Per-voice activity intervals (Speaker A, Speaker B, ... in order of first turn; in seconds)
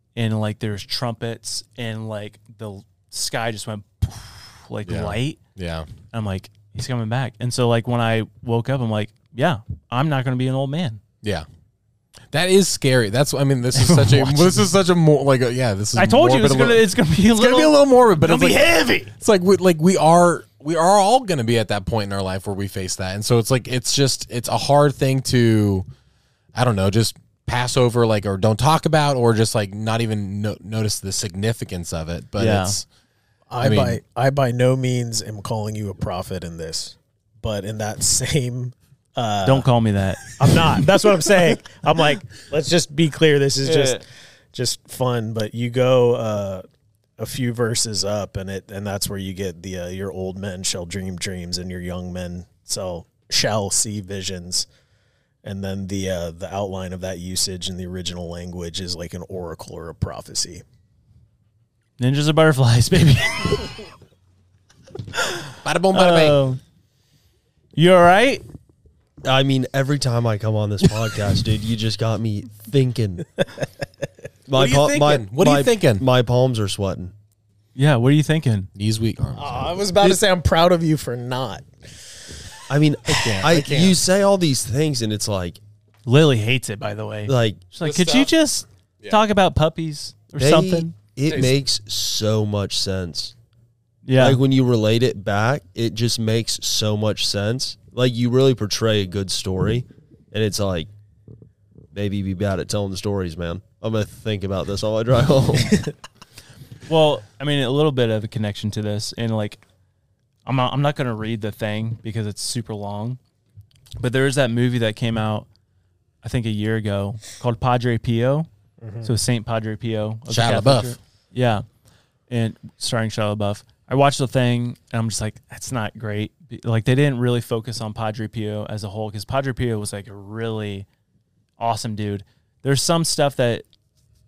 Speaker A: 0.1-5.4, 6.1-11.0, 13.7-14.7, 15.9-19.1, 32.4-32.8, 39.4-40.3, 43.6-44.0, 62.0-63.7, 65.1-66.6, 67.8-68.4, 77.8-78.7, 86.0-90.9, 94.0-94.4, 106.9-109.6, 110.5-113.2, 114.0-115.5, 116.2-118.5, 119.0-121.6, 122.3-130.9, 131.6-133.7
Speaker B: 4.8-5.9, 12.3-25.9, 26.5-32.9, 33.6-34.0, 65.6-66.4, 74.5-76.0, 78.7-79.8, 83.0-84.0, 87.8-88.3, 91.3-91.5, 120.3-121.0
Speaker C: 33.5-39.7, 40.3-46.6, 47.2-54.7, 55.4-60.6, 79.4-81.7, 118.8-119.1
Speaker D: 69.2-73.2, 74.5-77.1, 82.7-85.6, 87.3-87.6, 90.4-93.3, 94.2-100.9, 101.9-105.9